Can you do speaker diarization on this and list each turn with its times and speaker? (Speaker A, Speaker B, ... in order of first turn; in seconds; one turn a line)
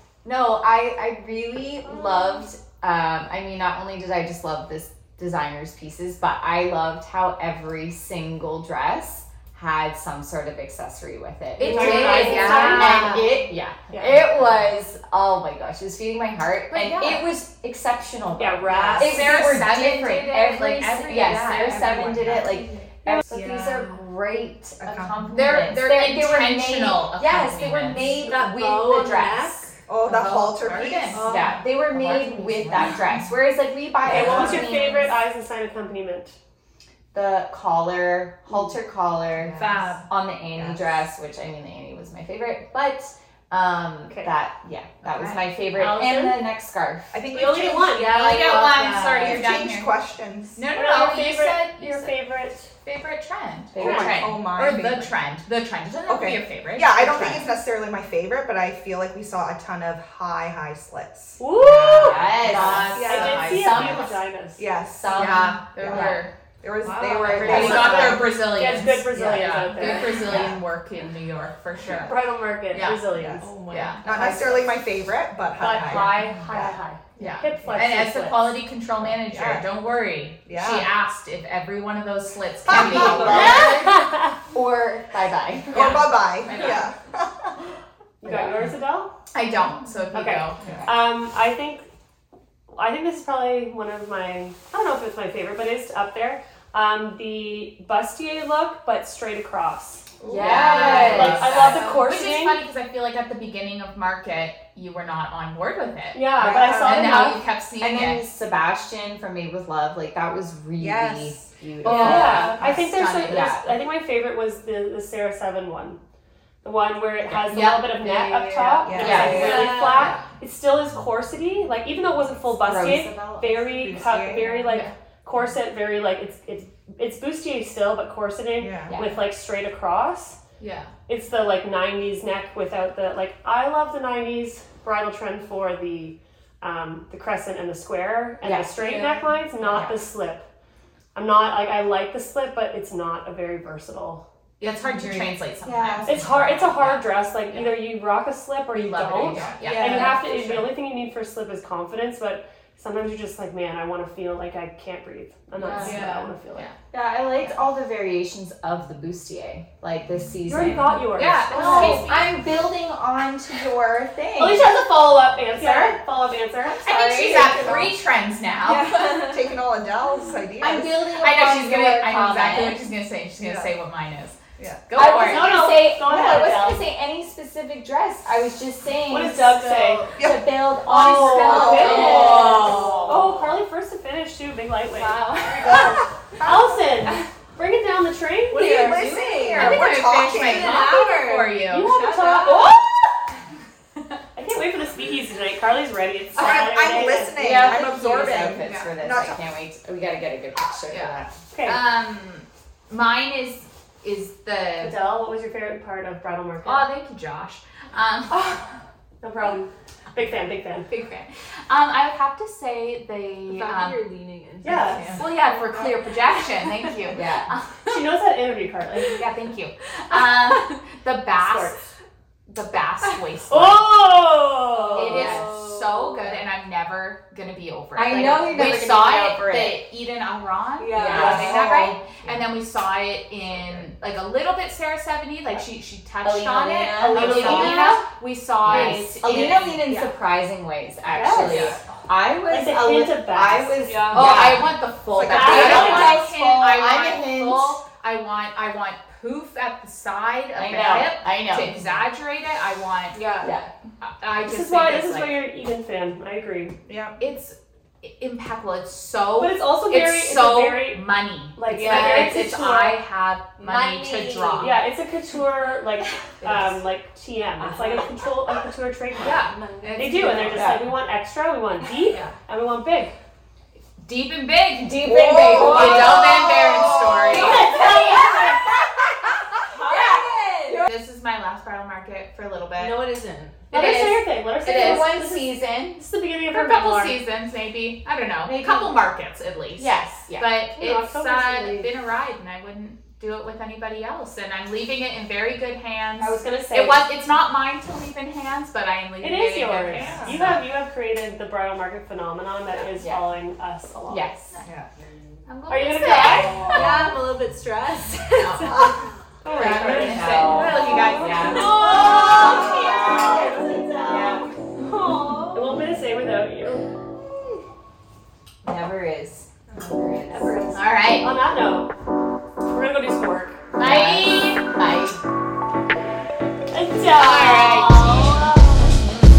Speaker A: 0.2-29.5
Speaker B: 1.9-2.4
Speaker C: 11.6-13.3
Speaker D: 11.6-13.1
Speaker B: 11.6-13.2
Speaker B: 13.9-14.2
Speaker C: 16.7-17.3
Speaker B: 18.4-19.4
Speaker C: 19.0-22.5
Speaker E: 23.4-23.7
Speaker E: 24.8-25.4
Speaker C: 25.3-28.0
Speaker D: 28.0-29.8
Speaker E: 29.9-31.3
Speaker C: 29.9-31.3
Speaker D: 31.1-32.9
Speaker A: 31.2-35.1
Speaker C: 32.0-33.0
Speaker E: 34.1-34.7
Speaker B: 34.1-36.4
Speaker A: 37.1-47.2
Speaker D: 39.6-40.1
Speaker C: 39.6-40.0
Speaker C: 45.1-45.5
Speaker B: 45.7-46.5
Speaker E: 47.1-48.2
Speaker B: 47.3-48.6
Speaker D: 47.4-49.5
Speaker C: 48.1-49.9
Speaker E: 49.2-50.6
Speaker C: 50.5-52.2
Speaker B: 50.7-52.7
Speaker C: 52.8-57.5
Speaker A: 53.7-54.4
Speaker E: 53.8-55.1
Speaker E: 56.1-63.5
Speaker B: 61.4-62.3
Speaker A: 61.6-64.2
Speaker C: 62.1-64.1
Speaker B: 63.0-64.7
Speaker E: 64.6-68.2
Speaker A: 64.9-66.3
Speaker C: 65.1-66.3
Speaker D: 66.8-68.2
Speaker B: 67.2-70.4
Speaker A: 67.3-68.0
Speaker C: 67.4-73.1
Speaker E: 69.1-69.5
Speaker D: 69.8-70.5
Speaker E: 70.1-70.6
Speaker B: 72.0-73.6
Speaker D: 72.7-74.7
Speaker E: 73.1-73.4
Speaker C: 73.7-74.0
Speaker E: 74.0-76.8
Speaker B: 74.1-74.5
Speaker B: 75.6-78.6
Speaker C: 77.2-83.8
Speaker E: 79.1-79.7
Speaker E: 80.5-80.9
Speaker E: 82.7-83.7
Speaker A: 82.7-86.1
Speaker B: 83.2-84.3
Speaker E: 85.7-87.6
Speaker C: 85.7-86.9
Speaker B: 88.2-89.1
Speaker C: 89.3-90.7
Speaker B: 90.1-91.9
Speaker E: 90.6-90.9
Speaker B: 92.7-102.6
Speaker A: 100.3-101.8
Speaker C: 100.3-108.3
Speaker D: 100.5-101.2
Speaker B: 106.1-107.4
Speaker E: 106.4-107.4
Speaker A: 107.8-112.5
Speaker E: 110.8-112.8
Speaker D: 111.8-112.6
Speaker B: 111.9-116.0
Speaker C: 112.0-113.6
Speaker A: 113.2-113.7
Speaker B: 116.6-130.4
Speaker C: 117.3-118.0
Speaker D: 118.0-120.1
Speaker E: 118.8-119.7
Speaker A: 119.0-119.7
Speaker C: 119.0-120.2
Speaker A: 122.6-123.7
Speaker E: 123.6-124.7
Speaker C: 124.7-124.9
Speaker E: 128.6-129.0
Speaker A: 128.9-129.2
Speaker C: 130.6-130.9
Speaker B: 131.1-140.5
Speaker A: 138.4-138.8
Speaker D: 138.8-139.3
Speaker C: 139.6-140.0
Speaker B: 141.2-144.2
Speaker C: 144.6-147.1
Speaker A: 145.6-146.2
Speaker B: 146.1-156.7
Speaker C: 148.7-150.7
Speaker D: 149.6-150.2
Speaker A: 155.6-156.1
Speaker D: 155.8-156.3
Speaker A: 156.9-164.8
Speaker B: 160.5-162.1
Speaker C: 161.1-162.3
Speaker B: 164.4-167.9
Speaker D: 165.6-165.9
Speaker C: 166.8-169.4
Speaker E: 167.3-167.6
Speaker D: 168.7-169.4
Speaker E: 169.1-170.9
Speaker A: 170.6-172.8
Speaker C: 171.1-175.8
Speaker E: 173.4-173.7
Speaker E: 174.6-174.8
Speaker A: 174.9-179.4
Speaker B: 175.0-176.9
Speaker B: 179.1-180.1
Speaker D: 179.4-180.2
Speaker E: 180.2-180.7
Speaker A: 180.2-183.2
Speaker C: 180.8-183.1
Speaker B: 180.9-189.0
Speaker D: 181.7-183.4
Speaker D: 184.9-186.0
Speaker E: 186.4-186.8
Speaker D: 188.5-192.8
Speaker E: 188.6-191.0
Speaker C: 189.4-192.0
Speaker B: 191.7-192.8
Speaker B: 194.4-197.6
Speaker E: 196.4-199.4
Speaker A: 197.4-201.3
Speaker C: 198.6-198.9
Speaker C: 200.9-205.0
Speaker B: 201.5-201.8
Speaker B: 204.8-206.9
Speaker C: 206.6-208.6
Speaker B: 209.2-210.9
Speaker C: 210.9-214.1
Speaker D: 213.5-216.0
Speaker B: 214.6-215.2
Speaker C: 214.6-218.1
Speaker A: 217.1-217.5
Speaker B: 217.9-219.1
Speaker C: 219.1-221.8
Speaker B: 221.4-221.9
Speaker C: 222.5-224.0
Speaker B: 223.5-225.4
Speaker D: 224.7-226.3
Speaker C: 224.9-240.1
Speaker A: 228.0-229.8
Speaker D: 230.8-231.9
Speaker A: 230.9-231.8
Speaker B: 231.2-231.9
Speaker A: 236.2-238.0
Speaker B: 236.9-238.0
Speaker A: 238.6-247.8
Speaker B: 241.1-241.7
Speaker C: 241.3-241.8
Speaker B: 242.5-243.8
Speaker D: 243.8-244.6
Speaker C: 244.1-253.2
Speaker E: 245.1-246.0
Speaker B: 245.3-246.2
Speaker A: 250.6-251.8
Speaker D: 253.1-253.5
Speaker A: 253.4-253.7
Speaker C: 254.0-255.4
Speaker B: 254.4-256.8
Speaker E: 256.9-257.2
Speaker C: 257.2-264.8
Speaker B: 259.4-261.0
Speaker B: 261.6-263.0
Speaker D: 261.7-262.4
Speaker A: 263.6-264.8
Speaker B: 264.6-273.2
Speaker D: 267.6-268.1
Speaker C: 269.2-270.8
Speaker D: 269.2-270.7
Speaker A: 270.5-270.9
Speaker C: 274.0-278.2
Speaker A: 274.8-278.8
Speaker D: 275.3-278.4
Speaker B: 277.3-278.5
Speaker A: 279.5-280.9
Speaker D: 279.6-280.9
Speaker C: 280.9-283.0
Speaker D: 282.8-283.7
Speaker C: 283.7-285.2
Speaker B: 283.7-287.2
Speaker A: 283.8-286.0
Speaker C: 286.5-300.6
Speaker A: 288.4-289.0
Speaker A: 289.8-290.5
Speaker B: 290.7-291.9
Speaker B: 296.2-297.0
Speaker B: 299.2-304.3
Speaker E: 299.9-300.5
Speaker A: 303.0-303.2
Speaker A: 304.1-304.5
Speaker E: 304.6-304.9
Speaker C: 305.5-307.1
Speaker B: 305.7-306.9
Speaker D: 306.6-308.9
Speaker C: 308.4-312.3
Speaker B: 309.4-313.9
Speaker A: 309.5-314.4
Speaker D: 310.5-315.9
Speaker C: 314.1-314.5
Speaker B: 315.5-316.9
Speaker A: 318.6-320.7
Speaker B: 320.3-321.9
Speaker C: 320.7-321.3
Speaker B: 322.7-323.6
Speaker C: 323.8-325.2
Speaker A: 323.8-324.5
Speaker B: 326.7-328.9
Speaker C: 327.1-328.9